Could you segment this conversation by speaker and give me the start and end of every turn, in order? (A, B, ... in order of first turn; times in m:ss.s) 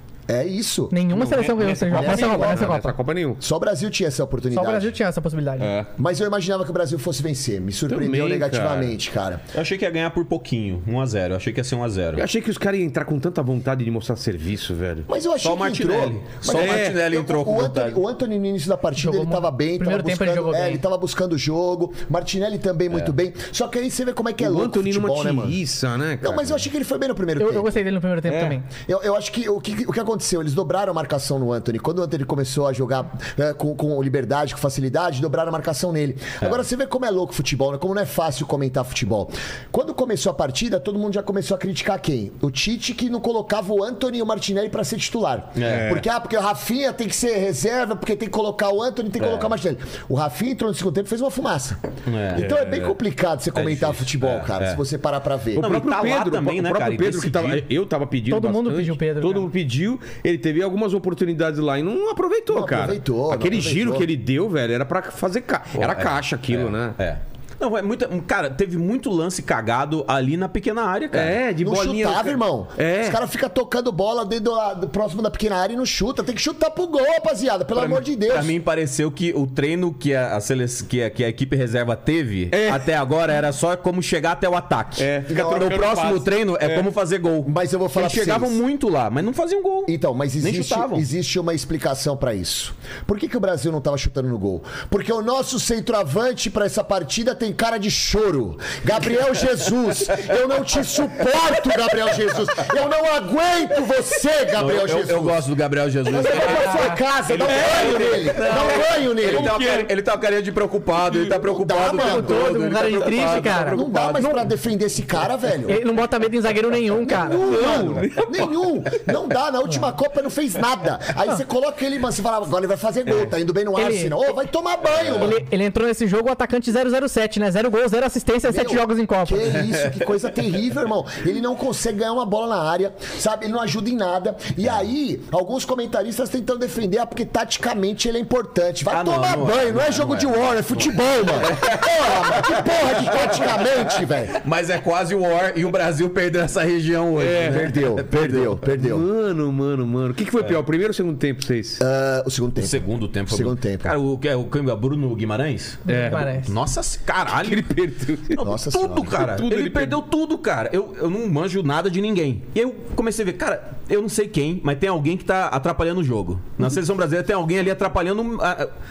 0:00.3-0:01.0 A
0:00.9-0:02.9 B
0:01.1-0:03.4 C
0:01.9-0:02.7 A
0:03.4-0:04.9 A
0:04.5-0:05.7 B
0:05.6-0:05.9 C
0:06.0-0:09.4 A
0:07.9-0:08.9 C
0:09.5-0:12.2 D
0:12.2-0:15.1 C
0:15.1-0:25.6 A
0:15.4-0:18.0 D
0:16.5-0:17.0 C
0:19.0-0:20.8 B
0:24.4-0:26.6 C
0:26.2-0:27.7 A
0:27.4-0:28.7 B
0:28.3-0:28.6 C
0:28.8-0:51.8 A
0:45.6-0:45.9 D
0:45.6-0:46.0 C
0:49.2-0:49.5 D
0:52.0-0:52.4 D
0:52.3-0:55.7 A
0:52.4-0:52.9 C
0:53.5-0:54.8 D
0:55.6-0:57.6 D
0:55.6-1:07.0 C
0:58.3-0:59.5 B
1:02.5-1:04.1 A
1:05.8-1:11.4 D
1:11.1-1:13.2 C
1:11.6-1:18.6 A
1:18.3-1:31.0 D
1:22.5-1:22.8 C
1:25.0-1:26.9 C
1:25.3-1:25.7 A
1:27.4-1:28.6 A
1:29.8-1:45.4 A
1:44.5-1:54.2 D
1:46.1-1:47.0 B
1:46.1-1:49.6 A
1:47.4-1:49.9 C
1:51.0-1:51.4 C
1:51.4-1:52.5 A
1:51.8-1:54.4 B
1:53.0-1:53.4 C
1:53.5-1:55.8 A
1:55.6-1:57.5 B
1:57.0-1:58.7 C
1:57.1-2:05.4 A
2:03.7-2:04.2 B
2:05.0-2:09.5 B
2:08.5-2:24.4 A
2:18.8-2:28.6 D
2:27.2-2:27.7 C
2:27.4-2:29.1 A
2:28.7-2:31.8 C
2:31.8-2:33.9 A
2:32.6-2:37.8 D
2:35.8-2:36.5 B
2:35.9-2:36.3 C
2:37.3-2:38.4 C
2:38.3-2:48.7 D
2:38.4-2:39.1 A
2:39.1-2:40.0 C